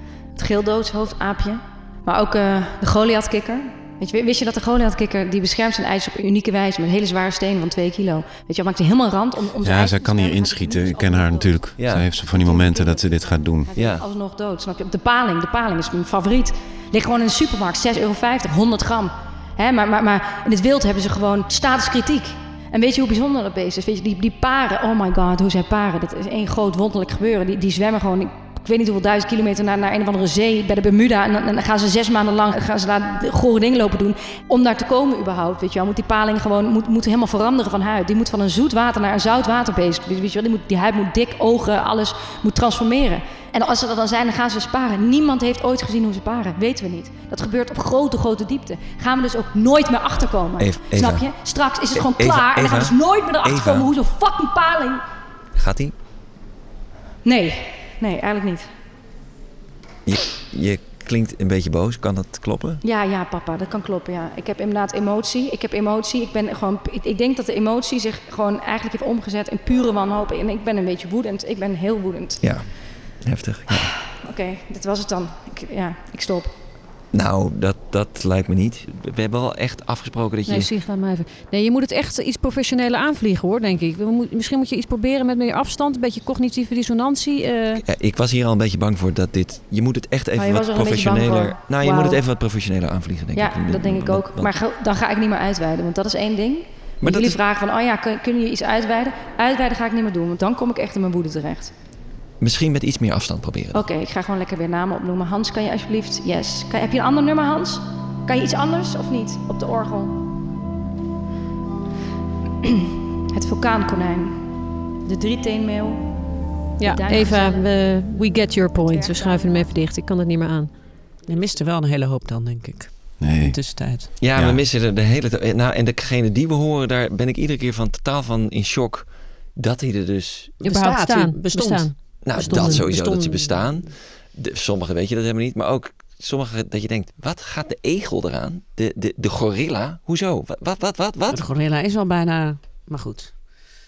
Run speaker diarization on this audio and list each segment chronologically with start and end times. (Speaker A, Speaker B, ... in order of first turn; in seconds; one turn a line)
Speaker A: 0.3-11.7
Speaker B: 9.6-13.8
Speaker C: 11.7-12.1
Speaker A: 12.2-55.0
Speaker C: 13.7-14.0
Speaker C: 50.6-51.3
Speaker C: 51.9-53.9
Speaker C: 55.5-55.9
Speaker A: 57.2-58.7
Speaker C: 60.0-62.8
Speaker A: 62.8-72.5
Speaker C: 72.4-73.9
Speaker A: 74.1-76.5
Speaker C: 77.1-80.7
Speaker D: 80.5-87.8
Speaker C: 87.8-94.5
Speaker A: 90.3-92.2
Speaker A: 93.3-101.7
Speaker C: 97.0-97.4
Speaker C: 102.4-103.8
Speaker A: 103.7-110.2
Speaker A: 113.3-114.5
Speaker A: 115.0-116.1
Speaker D: 116.8-120.7
Speaker A: 116.8-117.7
Speaker A: 118.8-119.7
Speaker E: 121.3-124.1
Speaker B: 123.2-123.6
Speaker C: 124.2-130.6
Speaker B: 124.3-124.6
Speaker E: 130.6-133.8
Speaker D: 130.6-132.9
Speaker C: 132.2-141.4
Speaker E: 141.3-143.3